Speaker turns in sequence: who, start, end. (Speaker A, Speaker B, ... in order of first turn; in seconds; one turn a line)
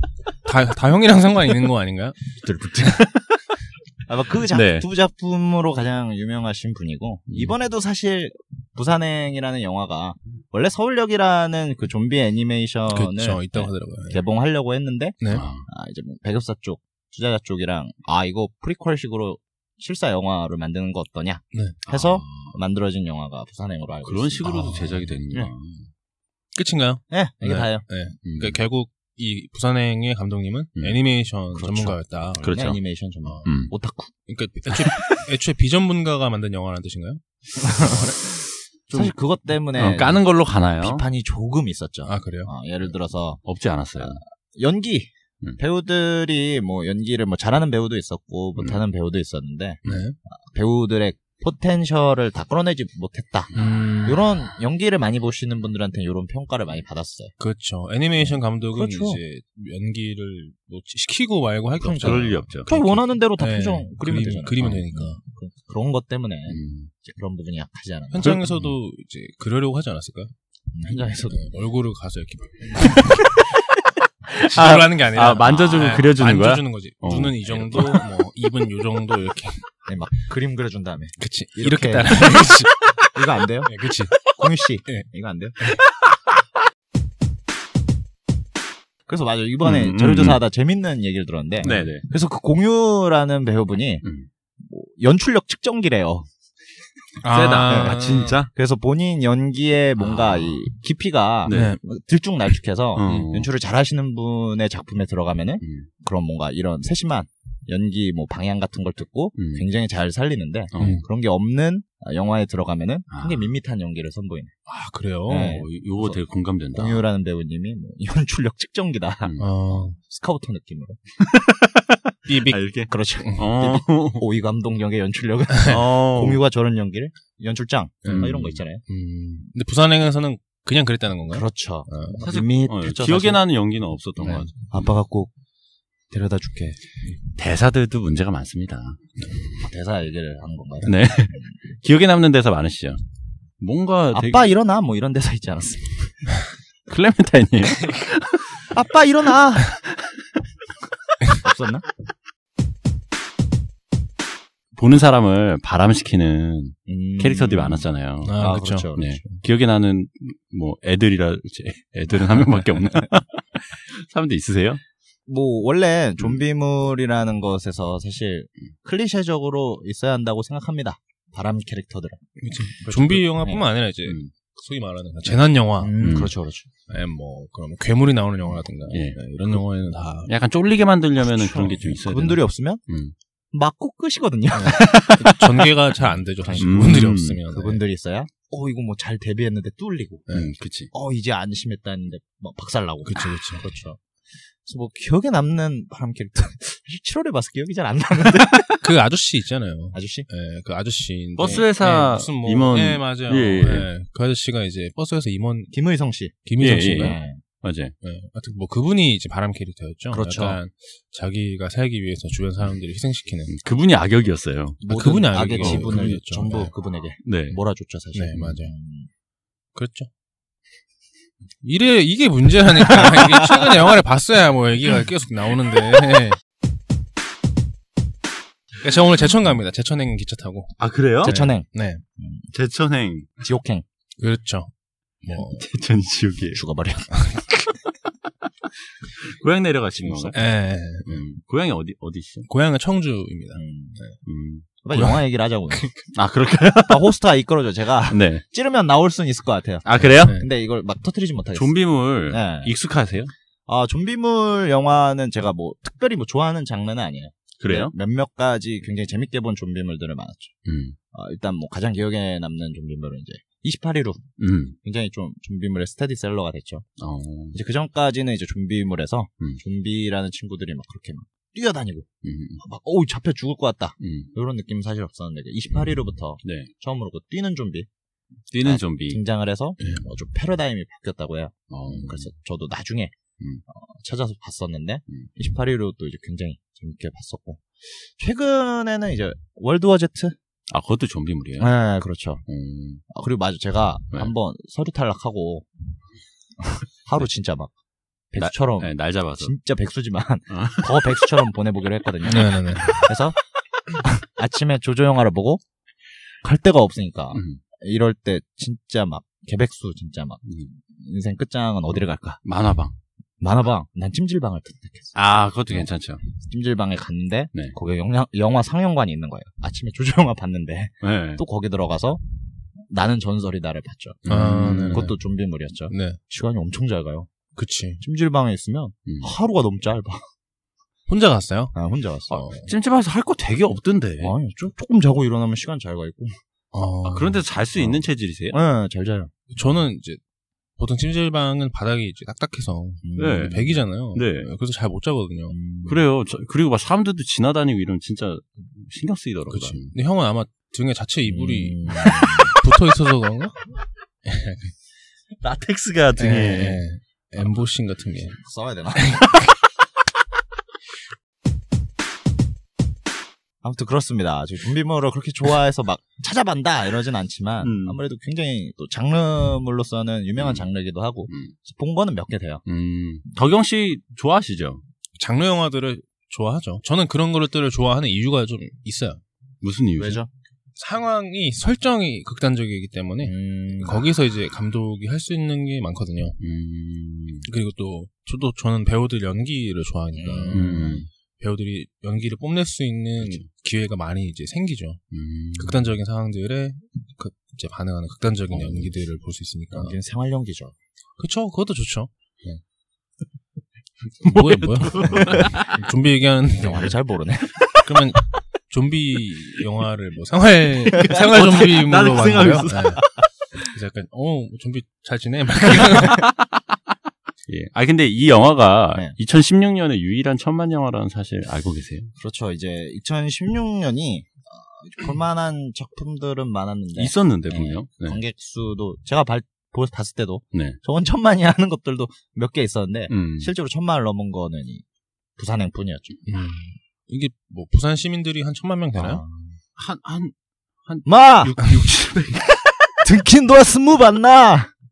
Speaker A: 0.4-2.2
Speaker B: 2.4-3.4
Speaker C: 4.0-25.5
Speaker B: 4.5-4.9
Speaker A: 12.9-14.2
Speaker A: 15.2-15.5
Speaker B: 15.3-15.6
Speaker A: 21.5-21.8
Speaker B: 21.9-22.6
Speaker B: 24.0-25.9
Speaker A: 24.5-25.2
Speaker A: 26.5-32.4
Speaker C: 27.1-27.9
Speaker B: 28.2-28.6
Speaker C: 31.5-34.1
Speaker B: 32.4-32.8
Speaker B: 33.4-33.7
Speaker A: 34.3-37.9
Speaker B: 34.8-35.2
Speaker C: 37.6-40.2
Speaker B: 39.7-41.0
Speaker C: 40.8-43.4
Speaker A: 42.0-42.5
Speaker B: 43.4-44.2
Speaker C: 44.0-57.3
Speaker A: 49.9-50.2
Speaker A: 53.5-54.2
Speaker A: 57.4-65.2
Speaker C: 58.3-59.2
Speaker C: 61.8-68.4
Speaker B: 61.9-62.7
Speaker B: 66.5-66.9
Speaker A: 68.1-70.3
Speaker B: 68.2-68.7
Speaker C: 70.7-71.5
Speaker A: 71.3-73.3
Speaker B: 74.4-78.0
Speaker A: 74.4-79.6
Speaker C: 79.9-85.6
Speaker A: 81.2-84.2
Speaker C: 89.1-94.0
Speaker B: 89.6-90.4
Speaker A: 91.6-91.9
Speaker B: 91.6-92.0
Speaker B: 94.0-94.3
Speaker C: 94.6-96.3
Speaker A: 97.2-98.4
Speaker B: 97.3-98.5
Speaker C: 97.7-114.5
Speaker B: 100.0-100.6
Speaker B: 101.5-101.8
Speaker A: 101.5-101.8
Speaker B: 102.9-103.5
Speaker A: 103.1-103.3
Speaker B: 105.6-105.9
Speaker B: 109.4-109.7
Speaker B: 110.7-111.0
Speaker A: 110.8-111.0
Speaker B: 113.1-113.5
Speaker A: 114.7-115.6
Speaker C: 115.3-116.2
Speaker B: 115.4-117.0
Speaker C: 116.7-121.0
Speaker B: 119.2-119.5
Speaker A: 119.4-120.0
Speaker B: 121.2-124.2
Speaker A: 122.2-122.6
Speaker C: 122.9-128.8
Speaker B: 125.6-126.4
Speaker A: 128.0-132.2
Speaker B: 128.1-128.6
Speaker C: 131.3-133.4
Speaker B: 132.2-134.5
Speaker A: 134.2-134.5
Speaker C: 134.2-135.3
Speaker C: 136.1-136.8
Speaker B: 137.3-139.0
Speaker C: 139.6-141.4
Speaker B: 140.8-143.0
Speaker B: 143.6-144.5
Speaker C: 144.1-146.2
Speaker B: 146.9-148.7
Speaker C: 148.7-149.8
Speaker B: 149.7-150.1
Speaker C: 151.3-151.9
Speaker B: 154.7-158.4
Speaker C: 156.9-159.2
Speaker A: 158.2-159.4
Speaker B: 158.9-164.8
Speaker C: 165.3-172.2
Speaker A: 172.4-175.9
Speaker C: 172.8-173.6
Speaker B: 174.1-174.3
Speaker C: 175.8-176.7
Speaker B: 176.0-176.3
Speaker A: 176.9-180.3
Speaker B: 178.9-183.1
Speaker C: 181.2-182.8
Speaker A: 181.6-182.0
Speaker C: 183.5-185.3
Speaker A: 184.5-187.8
Speaker B: 184.7-185.4
Speaker C: 186.4-186.9
Speaker B: 186.5-187.4
Speaker C: 187.5-190.3
Speaker A: 190.3-190.5
Speaker B: 190.3-190.9
Speaker C: 190.9-194.0
Speaker A: 193.0-193.7
Speaker C: 194.6-198.9
Speaker A: 198.8-205.7
Speaker C: 199.9-200.3
Speaker B: 201.4-203.9
Speaker C: 205.7-207.4
Speaker A: 206.4-207.2
Speaker B: 206.6-207.9
Speaker A: 208.0-213.5
Speaker C: 210.1-210.6
Speaker B: 213.5-214.8
Speaker C: 214.8-219.1
Speaker A: 214.9-216.7
Speaker B: 215.6-216.2
Speaker B: 217.2-217.6
Speaker A: 218.1-218.7
Speaker A: 219.7-220.1
Speaker A: 221.6-226.4
Speaker A: 228.8-232.0
Speaker B: 230.8-231.4
Speaker C: 231.2-232.5
Speaker B: 232.5-233.4
Speaker C: 233.4-233.8
Speaker A: 234.2-234.7
Speaker A: 235.2-235.7
Speaker B: 235.3-236.6
Speaker C: 236.5-237.1
Speaker A: 237.1-237.4
Speaker B: 239.2-240.4
Speaker C: 240.0-240.4
Speaker A: 240.3-241.2
Speaker B: 241.0-242.5
Speaker A: 242.5-244.2
Speaker C: 243.5-244.0
Speaker B: 244.2-244.7
Speaker C: 244.8-245.9
Speaker A: 244.9-246.0
Speaker B: 246.1-247.1
Speaker C: 246.9-252.7
Speaker B: 248.1-248.4
Speaker B: 249.8-250.4
Speaker A: 250.2-250.4
Speaker B: 251.5-253.3
Speaker C: 253.7-260.5
Speaker B: 257.6-257.9
Speaker B: 260.6-260.9
Speaker C: 261.1-264.3
Speaker B: 264.4-264.8
Speaker C: 264.8-266.8
Speaker B: 267.0-267.6
Speaker C: 267.5-272.1
Speaker B: 272.2-272.6
Speaker C: 272.6-277.9
Speaker B: 274.0-274.3
Speaker B: 276.4-276.7
Speaker B: 278.5-279.2
Speaker C: 278.6-283.1
Speaker B: 281.7-282.3
Speaker C: 283.7-290.3
Speaker B: 290.7-291.7
Speaker C: 291.6-292.4
Speaker B: 292.4-293.0
Speaker C: 293.1-295.7
Speaker C: 296.6-297.7
Speaker C: 298.3-303.4
Speaker B: 298.4-299.5
Speaker B: 300.5-301.1
Speaker A: 302.2-303.0
Speaker C: 303.9-305.6
Speaker C: 306.4-312.4
Speaker B: 307.3-307.6
Speaker B: 310.4-310.7
Speaker B: 312.4-312.9
Speaker C: 313.4-315.1
Speaker B: 315.1-316.2
Speaker C: 315.7-322.2
Speaker B: 321.0-321.4
Speaker C: 322.9-327.3
Speaker B: 324.2-325.1
Speaker A: 324.3-325.2
Speaker A: 325.9-326.2
Speaker A: 327.6-328.0
Speaker C: 328.0-330.2
Speaker B: 329.1-329.3
Speaker A: 331.1-331.7
Speaker C: 331.7-332.4
Speaker A: 332.3-332.7
Speaker B: 332.3-334.3
Speaker C: 334.2-336.4
Speaker A: 336.7-337.4
Speaker B: 337.0-338.6
Speaker C: 337.8-339.3
Speaker A: 339.5-340.2
Speaker A: 340.8-345.6
Speaker C: 343.0-343.6
Speaker B: 343.2-344.5
Speaker C: 345.5-346.0
Speaker B: 345.9-349.9
Speaker A: 349.5-353.6
Speaker C: 351.3-352.6
Speaker A: 354.2-354.7
Speaker B: 355.4-356.8
Speaker A: 356.2-358.4
Speaker C: 358.3-359.2
Speaker A: 358.9-359.5
Speaker C: 363.6-372.6
Speaker B: 367.6-368.0
Speaker B: 370.4-370.7
Speaker B: 371.3-371.5
Speaker B: 372.6-374.8
Speaker A: 375.2-379.2
Speaker B: 379.6-380.2
Speaker C: 380.0-380.3
Speaker A: 380.8-386.4
Speaker C: 383.2-384.1
Speaker B: 386.4-387.5
Speaker A: 387.4-395.0
Speaker C: 390.1-391.0
Speaker B: 390.5-391.1
Speaker B: 393.2-393.4
Speaker B: 395.1-395.9
Speaker A: 395.5-399.9
Speaker B: 398.5-398.9
Speaker C: 399.7-400.7
Speaker A: 401.2-402.1
Speaker B: 404.2-405.8
Speaker A: 404.2-406.9
Speaker C: 405.2-405.5
Speaker C: 406.6-407.8
Speaker A: 407.8-413.0
Speaker B: 410.9-413.2
Speaker C: 412.3-412.7
Speaker A: 413.7-416.3
Speaker B: 415.9-416.6
Speaker B: 417.5-422.1
Speaker C: 422.2-434.8
Speaker B: 426.9-428.2
Speaker B: 430.5-430.8
Speaker B: 433.1-433.5
Speaker C: 435.4-436.2
Speaker A: 436.2-439.2
Speaker C: 439.0-439.6
Speaker B: 439.8-440.3
Speaker B: 440.8-442.6
Speaker C: 441.0-441.6
Speaker C: 443.0-444.7